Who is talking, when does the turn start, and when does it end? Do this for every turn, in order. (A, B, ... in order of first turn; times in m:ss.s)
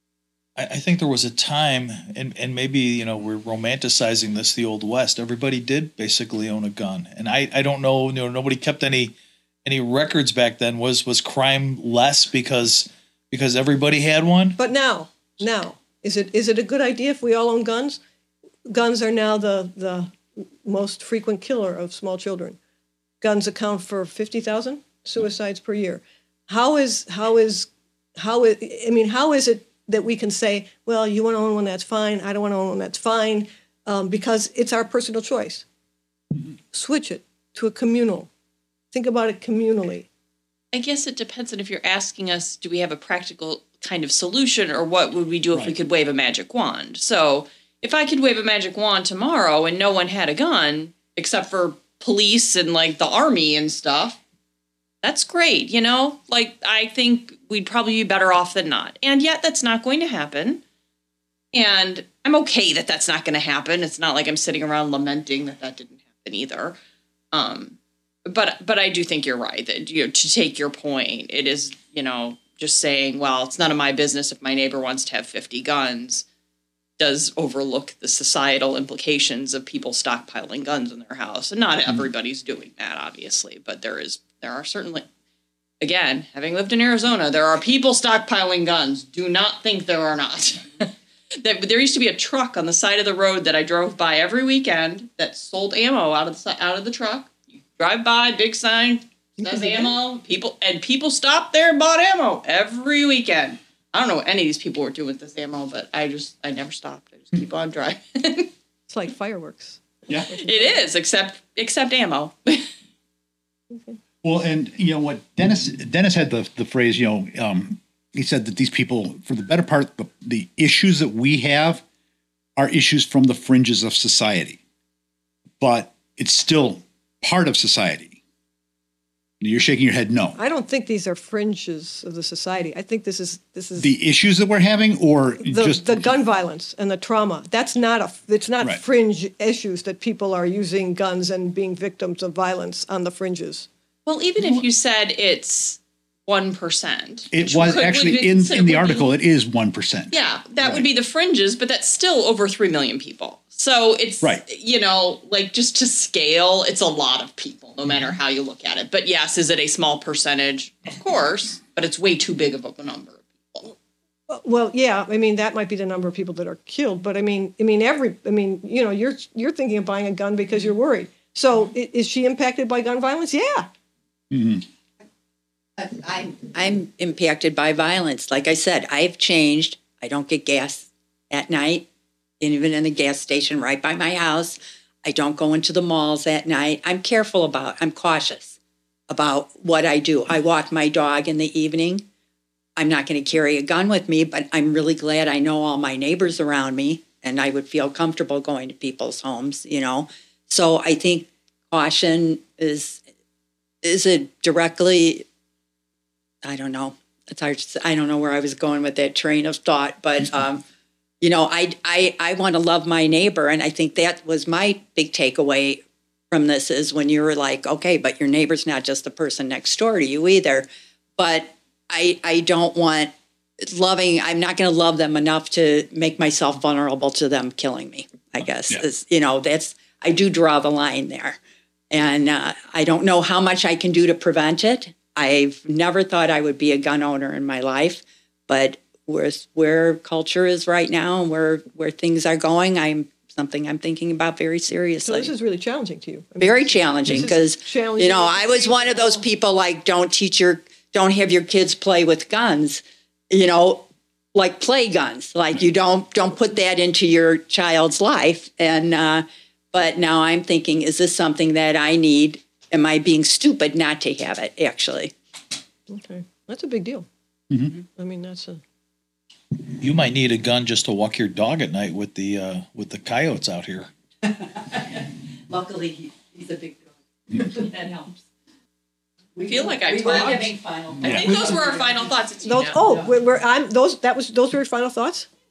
0:00.6-0:14.6 A
0:14.6-0:18.0 B
0:18.6-0:22.6 B
0:23.2-0:35.6 B
0:36.7-0:38.3 B
0:38.9-0:40.1 B
0:40.7-0:54.2 C
0:55.0-1:00.6 C
1:01.5-1:06.8 C
1:07.3-1:16.2 C
1:17.0-1:25.1 C
1:25.8-1:48.5 C
1:39.4-1:39.9 B
1:48.9-1:50.8 B
1:50.3-1:52.7 C
1:53.7-1:54.0 B
1:54.2-2:01.8 D
2:02.6-2:04.6 D
2:05.6-2:08.2 D
2:09.4-2:10.4 D
2:10.4-2:13.9 B
2:13.8-2:16.1 D
2:15.4-2:23.7 B
2:24.0-2:29.1 C
2:24.4-2:24.6 D
2:27.3-2:30.8 D
2:30.1-2:43.7 C
2:44.3-2:53.7 B
2:54.3-2:54.6 D
2:55.8-3:01.9 E
3:02.4-3:08.5 E
3:09.1-3:12.0 E
3:12.8-3:23.0 E
3:23.8-3:25.2 E
3:26.4-3:30.6 E
3:31.2-3:51.4 E
3:51.9-4:05.3 E
4:05.0-4:09.2 B
4:06.4-4:25.1 E
4:25.9-4:27.1 B
4:28.0-4:28.6 B
4:29.8-4:33.9 A
4:34.2-4:38.2 E
4:39.3-4:42.1 E
4:39.4-4:42.8 C
4:41.0-4:41.3 D
4:42.4-4:45.3 B
4:42.8-4:43.1 E